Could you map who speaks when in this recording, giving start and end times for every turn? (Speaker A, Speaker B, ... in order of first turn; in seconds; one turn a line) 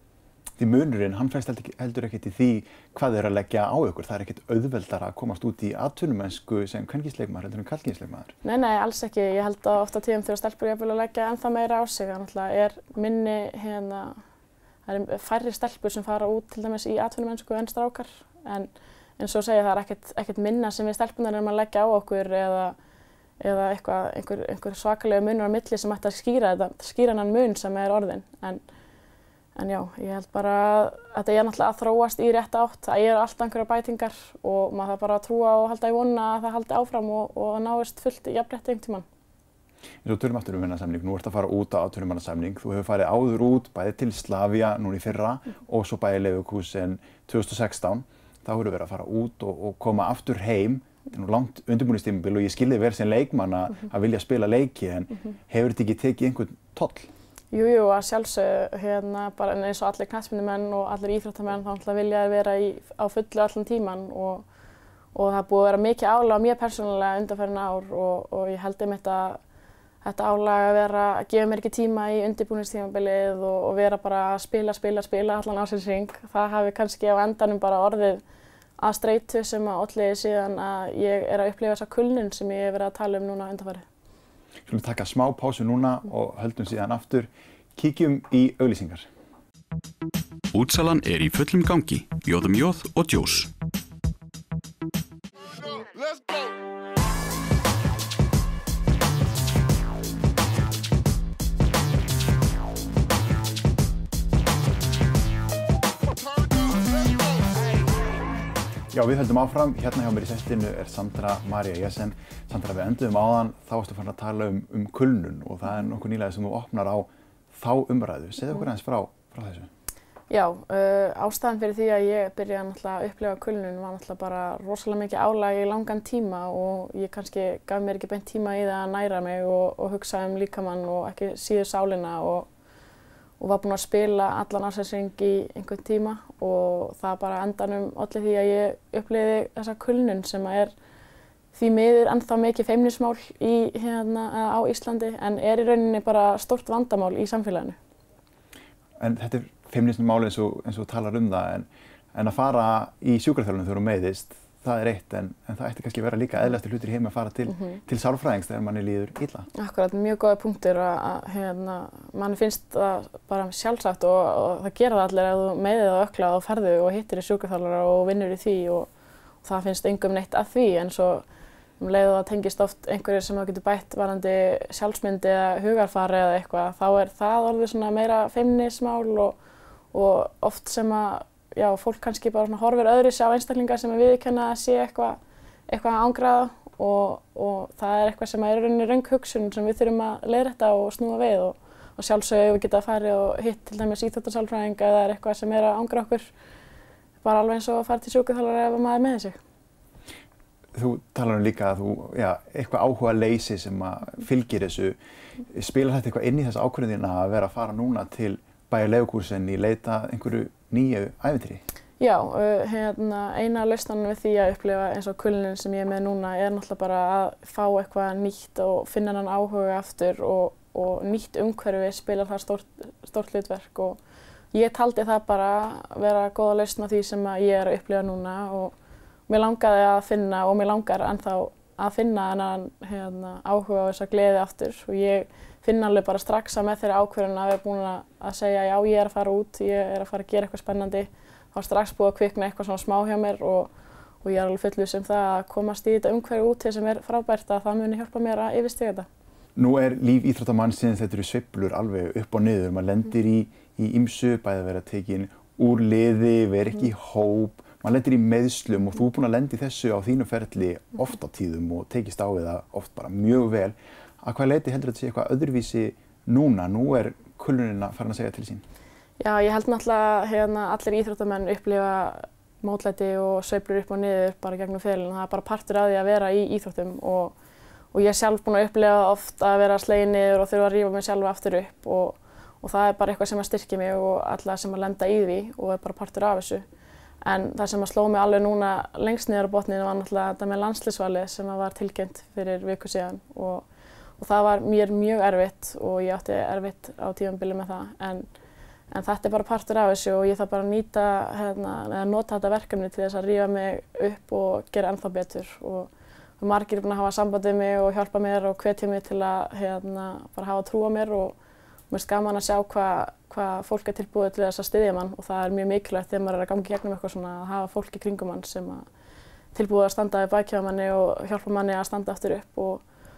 Speaker A: 0.6-8.3
Speaker B: 8.4-14.2
Speaker B: 14.9-22.8
Speaker B: 23.4-28.6
Speaker B: 29.6-39.0
Speaker A: 40.0-57.1
Speaker B: 57.5-64.5
Speaker B: 65.1-69.4
Speaker B: 70.0-78.2
Speaker B: 78.8-83.8
Speaker A: 84.7-89.1
Speaker C: 90.5-93.5
Speaker A: 108.9-119.7
Speaker B: 120.3-132.5
Speaker B: 133.4-140.7
Speaker B: 141.5-147.8
Speaker A: 149.0-159.5
Speaker B: 159.5-168.9
Speaker B: 169.4-171.2
Speaker B: 171.8-179.4
Speaker B: 179.9-196.3
Speaker B: 197.2-199.4
Speaker A: 200.7-205.0
Speaker A: 205.5-211.6
Speaker B: 212.0-224.0
Speaker B: 224.5-228.7
Speaker B: 229.3-243.7
Speaker B: 244.2-249.1
Speaker A: 249.6-268.6
Speaker B: 269.2-277.4
Speaker B: 277.9-286.6
Speaker B: 287.2-293.7
Speaker B: 294.2-298.3
Speaker B: 298.9-311.4
Speaker B: 311.9-318.9
Speaker B: 319.5-322.8